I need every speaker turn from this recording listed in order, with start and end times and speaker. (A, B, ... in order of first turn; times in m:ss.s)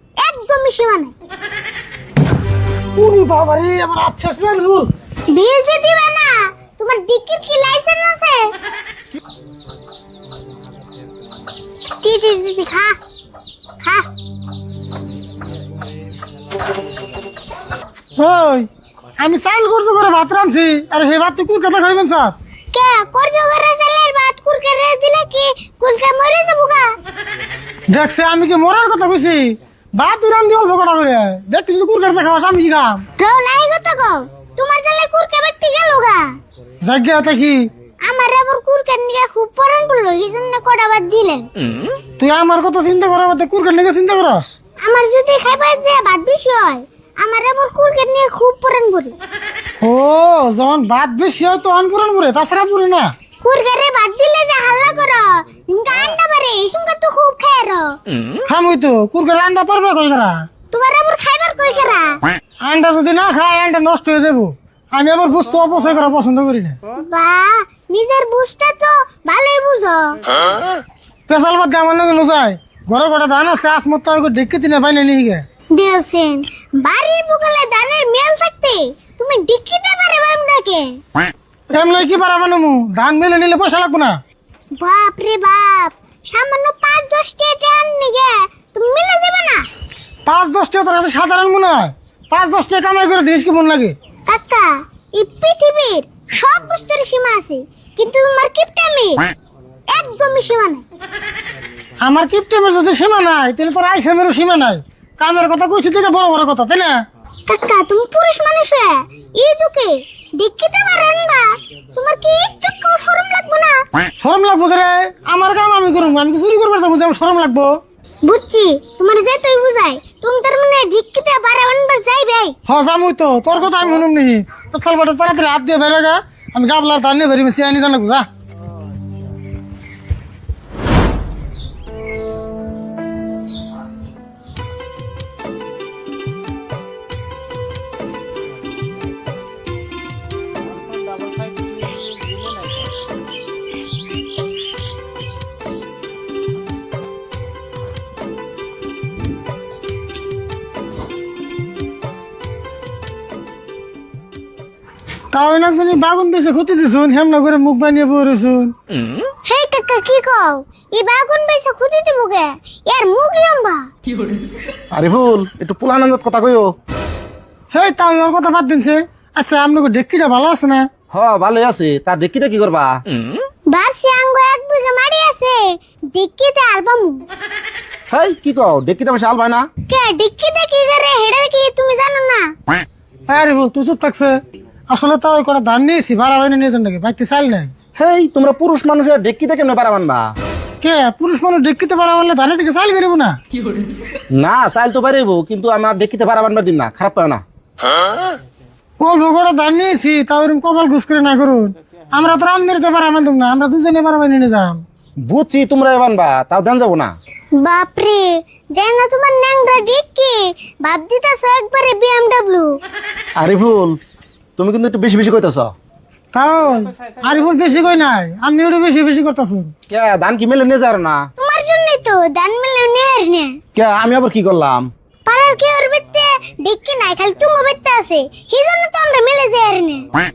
0:00.2-0:01.1 A
0:03.0-0:04.9 B
0:05.3-0:08.5 A
0:12.0-0:13.0 A
0:13.8-0:14.0 A
0:18.2-0:18.7 B
0:19.2-0:22.4 B
0:22.7-0:27.0 A
0:27.9-0:33.0 B
0:33.2-0:36.3 A
0:36.8-0:37.7 B
0:38.0-0:41.5 A
0:42.2-0:44.5 B
0:44.8-0:49.2 A
0:49.8-0:53.1 B
0:53.4-0:58.0 A
0:58.4-1:00.4 B
1:00.7-1:02.2 A
1:02.6-1:06.8 B
1:07.0-1:10.4 A
1:11.3-1:15.4 B
1:15.7-1:21.0 A
1:21.7-1:24.2 B
1:24.8-1:29.6 A
1:30.2-1:34.0 B
1:34.3-1:39.3 A
1:39.9-1:40.8 A
1:42.0-1:47.0 B
1:47.5-1:53.8 A
1:54.2-1:57.8 B
1:58.2-2:02.6 A
2:02.7-2:08.3 B
2:35.3-2:38.7 B
2:39.4-2:43.9 A
2:44.9-2:46.7 C
2:47.7-2:50.9 B
2:51.1-2:53.0 C
2:53.7-2:57.3 A
2:58.1-2:59.7 C
2:59.9-3:02.5 A
3:03.3-3:07.7 B
3:08.0-3:10.3 C
3:10.8-3:13.4 B
3:14.3-3:17.4 C
3:19.0-3:24.8 B
3:25.2-3:27.1 C
3:27.6-3:32.8 A
3:33.4-3:34.0 C
3:34.6-3:35.7 C
3:36.3-3:39.7 B
3:39.9-3:41.2 C
3:41.4-3:43.6 A
3:43.7-3:44.9 C
3:45.2-3:50.1 A